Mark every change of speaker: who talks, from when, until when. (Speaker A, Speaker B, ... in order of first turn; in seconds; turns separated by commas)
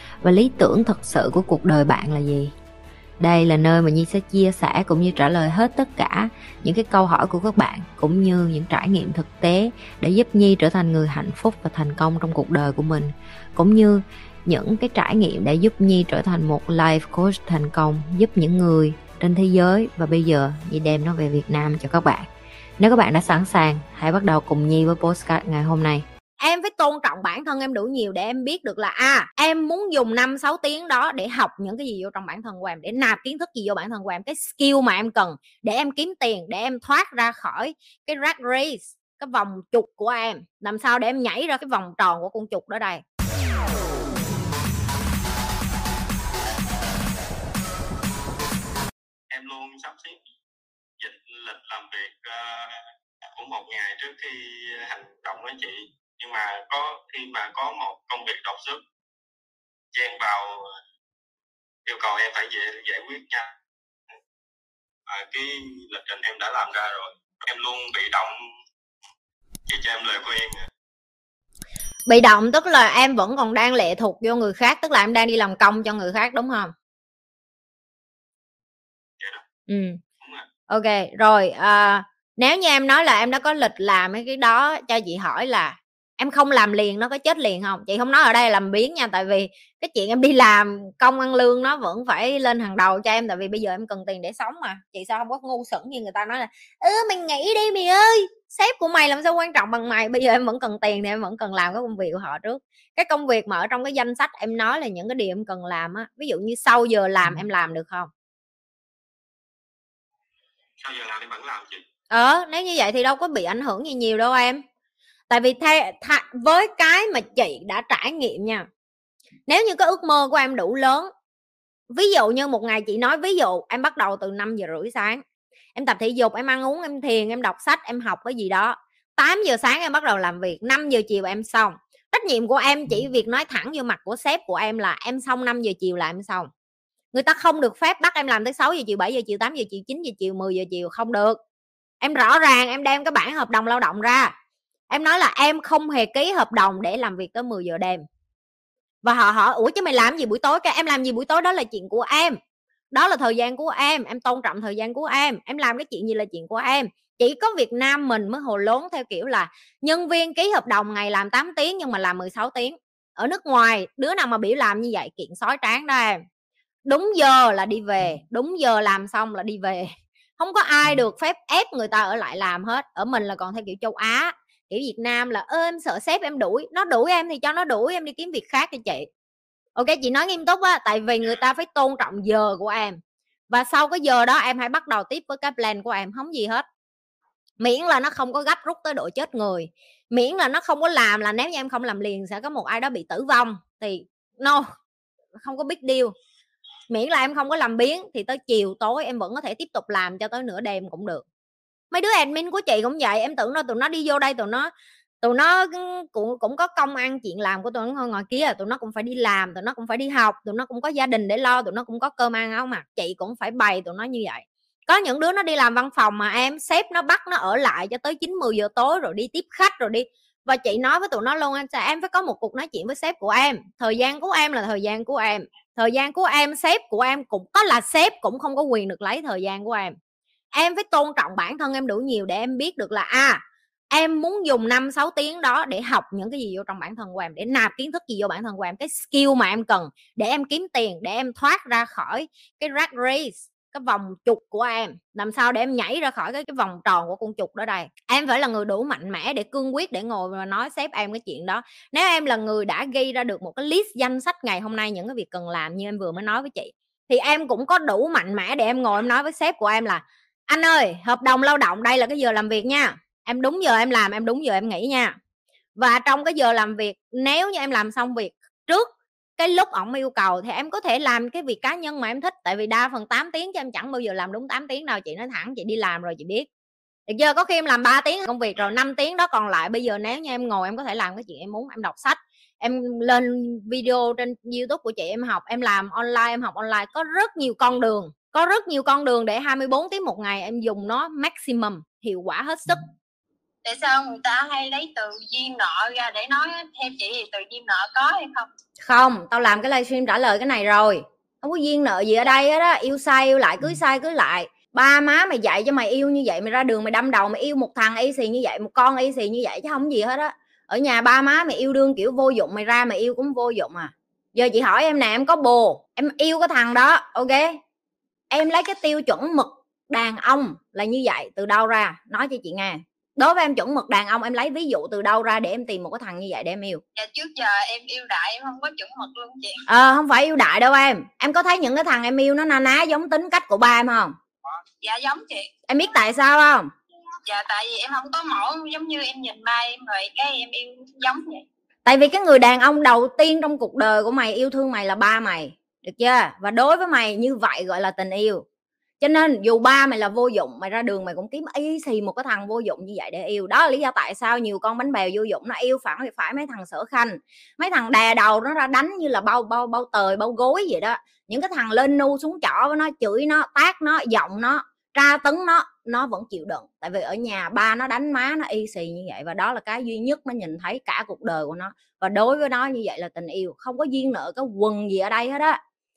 Speaker A: 0.2-2.5, Speaker A: 3.2-22.3, Speaker A: 22.8-26.0, Speaker B: 26.4-43.0, Speaker C: 49.3-50.2, Speaker C: 51.0-52.8, Speaker C: 53.4-58.8, Speaker C: 59.9-60.7, Speaker C: 61.8-63.5, Speaker C: 65.1-68.4, Speaker C: 69.7-70.7, Speaker B: 72.1-76.7, Speaker B: 79.7-80.0, Speaker C: 80.2-80.5, Speaker B: 80.7-108.1, Speaker C: 110.8-111.8, Speaker B: 112.1-114.6, Speaker B: 115.3-118.6, Speaker B: 119.5-121.1, Speaker B: 121.9-125.2, Speaker B: 125.7-136.5, Speaker B: 137.1-141.4, Speaker B: 142.0-144.3, Speaker B: 144.9-148.0, Speaker B: 149.0-152.4, Speaker B: 152.9-166.2, Speaker B: 166.8-179.1, Speaker B: 179.7-183.0, Speaker B: 183.5-186.6, Speaker B: 187.6-194.7, Speaker B: 195.4-196.1, Speaker B: 196.9-201.2, Speaker B: 201.9-229.9, Speaker B: 230.5-265.1, Speaker B: 265.8-276.5, Speaker B: 277.1-292.8, Speaker D: 293.6-298.5, Speaker B: 298.8-317.5, Speaker B: 318.3-326.8, Speaker D: 326.9-329.6, Speaker B: 329.7-334.1, Speaker D: 334.6-335.5, Speaker B: 335.7-336.7, Speaker D: 337.2-341.4, Speaker B: 341.8-348.4, Speaker B: 349.0-375.6